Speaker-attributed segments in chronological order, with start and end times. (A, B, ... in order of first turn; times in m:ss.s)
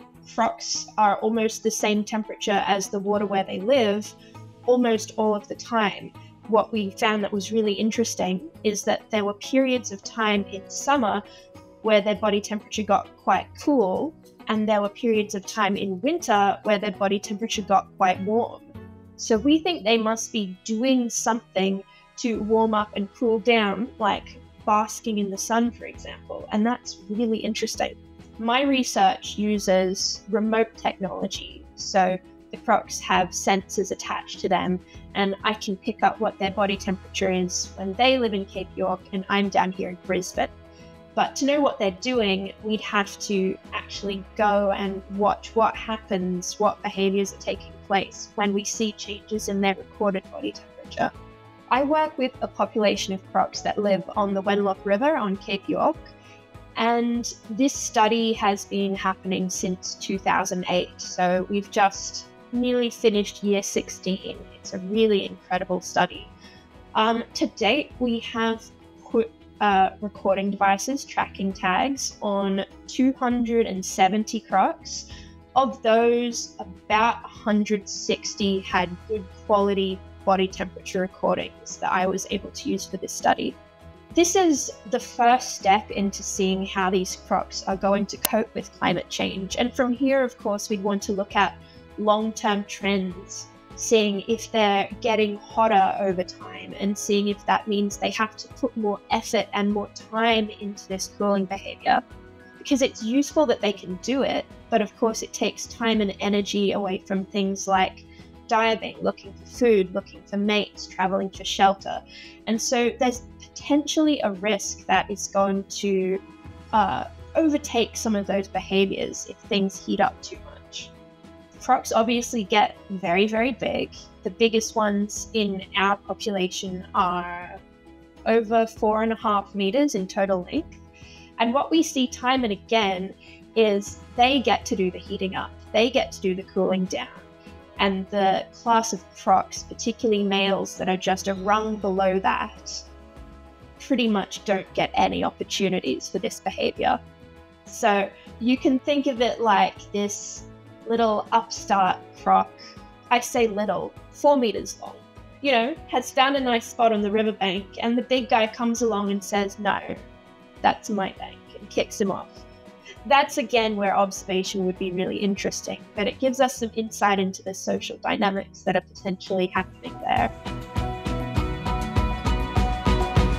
0:00.2-0:04.1 A
0:04.7-0:11.2 A
0:11.8-0:40.5 A
0:41.2-0:51.1 A
0:51.7-0:56.1 A
0:56.8-1:06.3 A
1:06.9-1:23.6 A
1:24.1-1:42.0 A
1:42.6-2:00.9 A
2:01.6-2:07.6 A
2:08.3-2:10.8 A
2:11.4-2:17.3 A
2:17.8-2:22.8 A
2:23.8-2:27.0 A
2:27.7-2:32.6 A
2:33.1-2:40.0 A
2:40.6-2:42.4 A
2:43.1-2:50.3 A